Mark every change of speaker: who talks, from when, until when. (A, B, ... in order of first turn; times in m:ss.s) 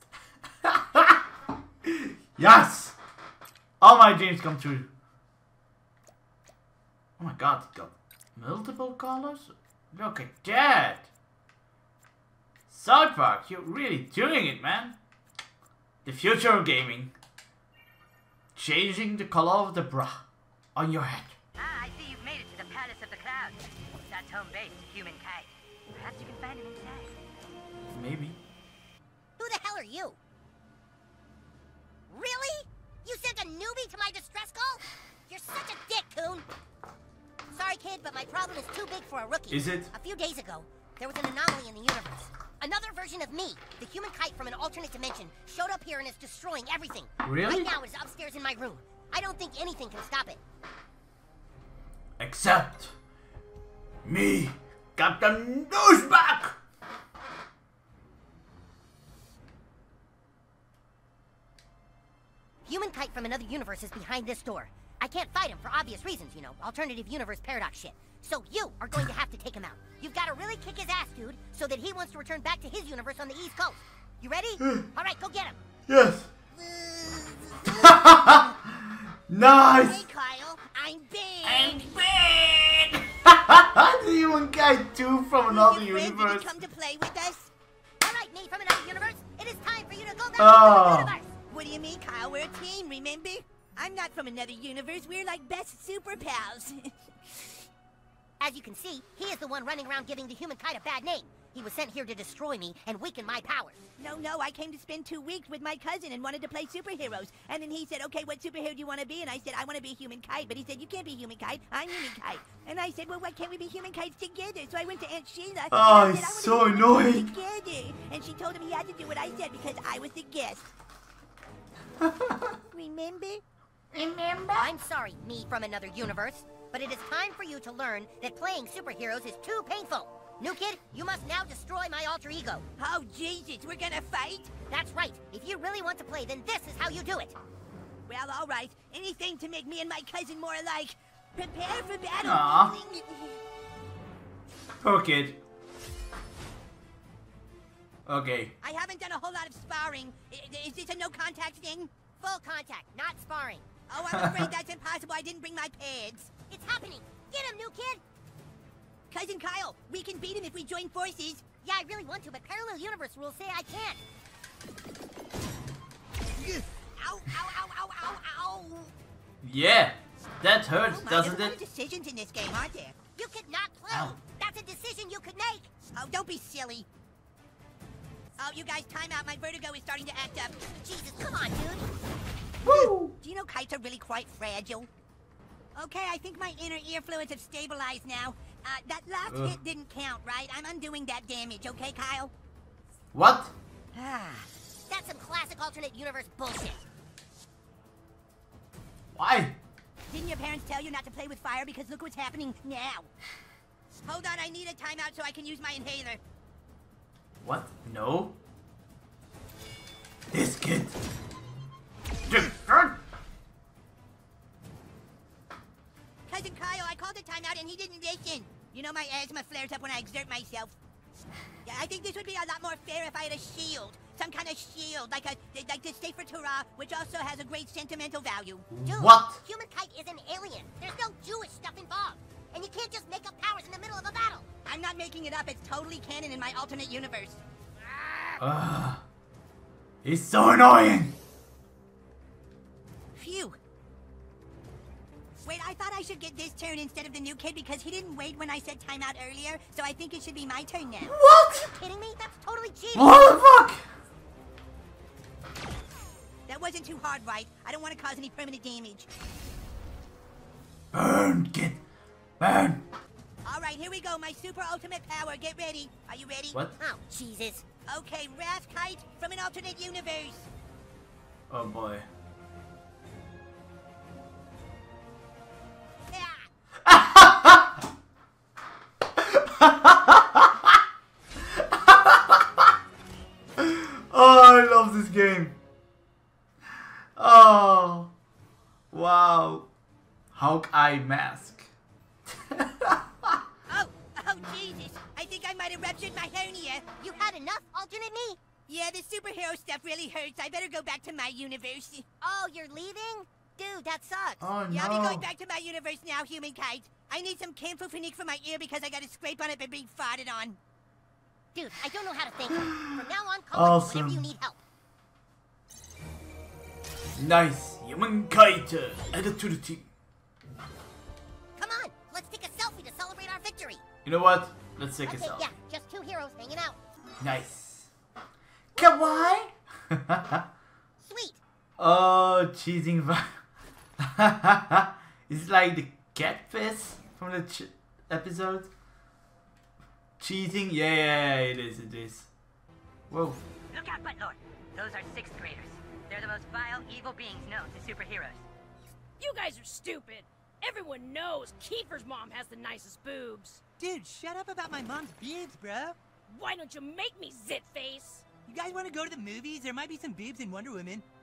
0:00.6-0:01.2 A
0:01.9-0:03.0 A
0:03.8-0:04.9 A
0:07.2-0:11.1 A
0:12.7-0:15.0 A
0:16.0-0:17.2 A
0:18.6-0:21.4 A
0:21.6-0:27.1 B
0:27.9-0:28.4 A
0:29.4-0:30.2 C
0:32.1-0:36.5 C
0:37.5-0:50.4 C
0:39.5-0:39.9 A
0:47.2-0:47.7 A
0:52.2-0:53.0 A
0:54.0-0:56.6 A
1:02.6-1:15.6 C
1:15.9-1:16.3 A
1:16.6-1:18.1 C
1:17.7-1:20.0 A
1:19.7-1:21.9 D
1:21.4-1:26.5 A
1:25.5-1:27.5 D
1:28.0-1:31.3 C
1:30.4-1:31.1 A
1:31.5-1:37.5 D
1:38.4-1:43.8 C
1:44.0-2:00.7 D
1:55.7-1:57.3 A
2:02.0-2:02.5 A
2:02.7-2:03.4 D
2:03.9-2:04.7 A
2:04.5-2:12.6 C
2:12.8-2:14.5 D
2:14.7-2:17.4 C
2:18.1-2:23.4 D
2:22.2-2:22.7 A
2:24.8-2:25.4 A
2:28.1-2:28.5 A
2:28.6-2:31.9 D
2:32.2-2:33.8 C
2:33.9-2:36.3 D
2:36.5-2:38.0 C
2:39.1-2:41.4 D
2:41.6-2:44.0 C
2:46.4-2:48.9 D
2:49.4-2:51.6 A
2:50.9-2:53.0 D
2:53.2-2:55.7 C
2:55.9-2:56.9 D
2:58.4-3:00.6 D
3:00.7-3:01.8 C
3:02.6-3:03.1 A
3:02.6-3:04.9 D
3:05.8-3:12.3 D
3:09.3-3:09.6 A
3:13.1-3:13.5 A
3:13.9-3:16.8 C
3:19.1-3:19.6 A
3:20.1-3:23.1 D
3:24.0-3:26.2 D
3:27.4-3:28.4 A
3:30.3-3:31.0 A
3:32.3-3:33.0 A
3:36.3-3:40.7 D
3:41.6-3:48.7 D
3:48.7-3:49.4 A
3:48.8-3:54.5 C
3:54.7-3:57.4 D
3:58.0-3:58.3 C
3:58.4-3:59.0 A
4:00.0-4:01.2 A
4:03.2-4:03.6 D
4:05.4-4:11.2 D
4:11.0-4:11.7 A
4:11.5-4:13.2 C
4:12.9-4:13.8 A
4:16.5-4:19.1 D
4:20.9-4:21.8 A
4:22.4-4:22.8 A
4:23.4-4:26.6 D
4:26.8-4:27.7 C
4:27.9-4:30.5 D
4:31.5-4:32.1 A
4:36.1-4:36.5 D
4:36.9-4:37.7 A
4:39.2-4:40.7 A
4:41.6-4:42.4 A
4:43.6-4:45.6 A
4:47.2-4:48.1 A
4:48.9-4:49.7 A
4:50.3-4:51.7 A
4:52.5-4:53.4 A
4:53.7-4:56.9 D
4:57.0-4:58.4 C
4:58.7-5:02.1 D
5:02.2-5:04.5 C
5:04.4-5:05.2 A
5:04.7-5:10.6 D
5:11.5-5:14.6 C
5:13.5-5:14.3 A
5:17.2-5:19.9 A
5:21.6-5:23.8 C
5:24.0-5:25.5 A
5:25.0-5:26.8 C
5:27.2-5:27.9 A
5:28.8-5:30.4 A
5:31.0-5:31.4 C
5:31.8-5:33.3 A
5:34.0-5:38.7 A
5:40.2-5:42.3 A
5:43.1-5:43.4 A
5:43.7-5:48.4 B
5:49.2-5:53.6 E
5:53.8-5:55.9 F
5:56.3-5:58.3 E
5:58.4-6:01.0 F